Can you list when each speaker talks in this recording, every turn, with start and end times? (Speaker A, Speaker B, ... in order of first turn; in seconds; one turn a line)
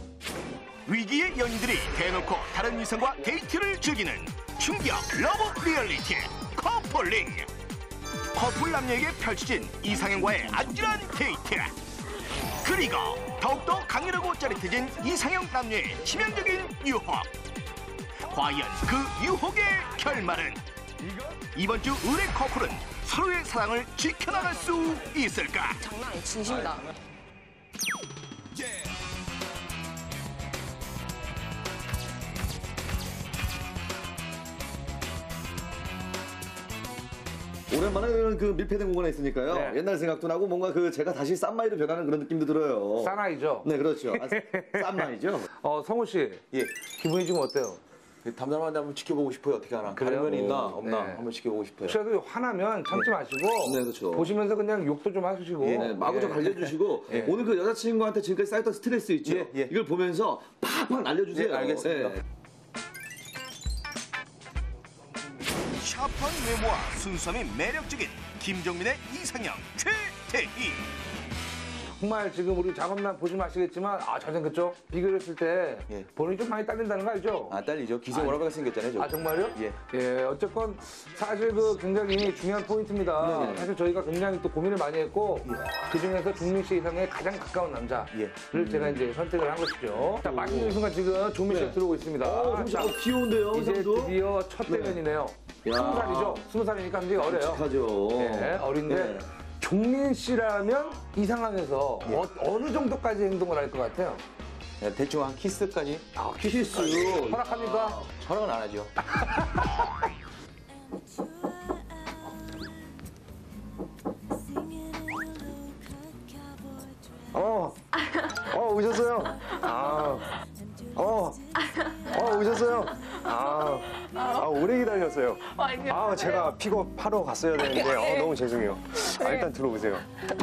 Speaker A: 0.8-7.5
Speaker A: 8.3-11.7
Speaker A: 12.6-17.3
Speaker A: 18.2-20.6
Speaker B: 21.0-21.4
Speaker A: 21.5-25.8
Speaker C: 25.8-26.8
Speaker D: 26.4-26.9
Speaker B: 37.7-45.5
Speaker E: 39.5-39.8
Speaker E: 43.0-45.1
Speaker E: 45.6-47.8
Speaker D: 48.2-52.0
Speaker E: 50.0-51.2
Speaker B: 50.3-50.8
Speaker E: 51.9-57.3
Speaker B: 53.7-54.2
Speaker D: 55.6-55.9
Speaker B: 55.7-62.2
Speaker D: 57.1-57.4
Speaker D: 59.2-59.7
Speaker D: 61.3-62.2
Speaker A: 65.8-70.8
Speaker E: 72.0-77.5
Speaker D: 77.5-79.8
Speaker E: 79.0-93.0
Speaker B: 83.2-83.7
Speaker D: 88.1-88.4
Speaker B: 88.5-89.0
Speaker B: 90.2-90.8
Speaker B: 91.5-95.0
Speaker E: 93.5-97.6
Speaker B: 95.6-96.4
Speaker B: 97.2-99.2
Speaker E: 98.1-104.2
Speaker D: 104.8-106.0
Speaker E: 106.1-108.0
Speaker B: 106.4-108.0
Speaker D: 108.1-108.9
Speaker F: 117.3-117.8
Speaker C: 118.0-118.4
Speaker F: 118.4-120.2
Speaker C: 119.3-120.2
Speaker F: 120.9-121.4
Speaker C: 121.6-124.7
Speaker F: 122.1-130.1
Speaker C: 125.4-126.6
Speaker C: 127.6-128.4
Speaker C: 129.0-129.5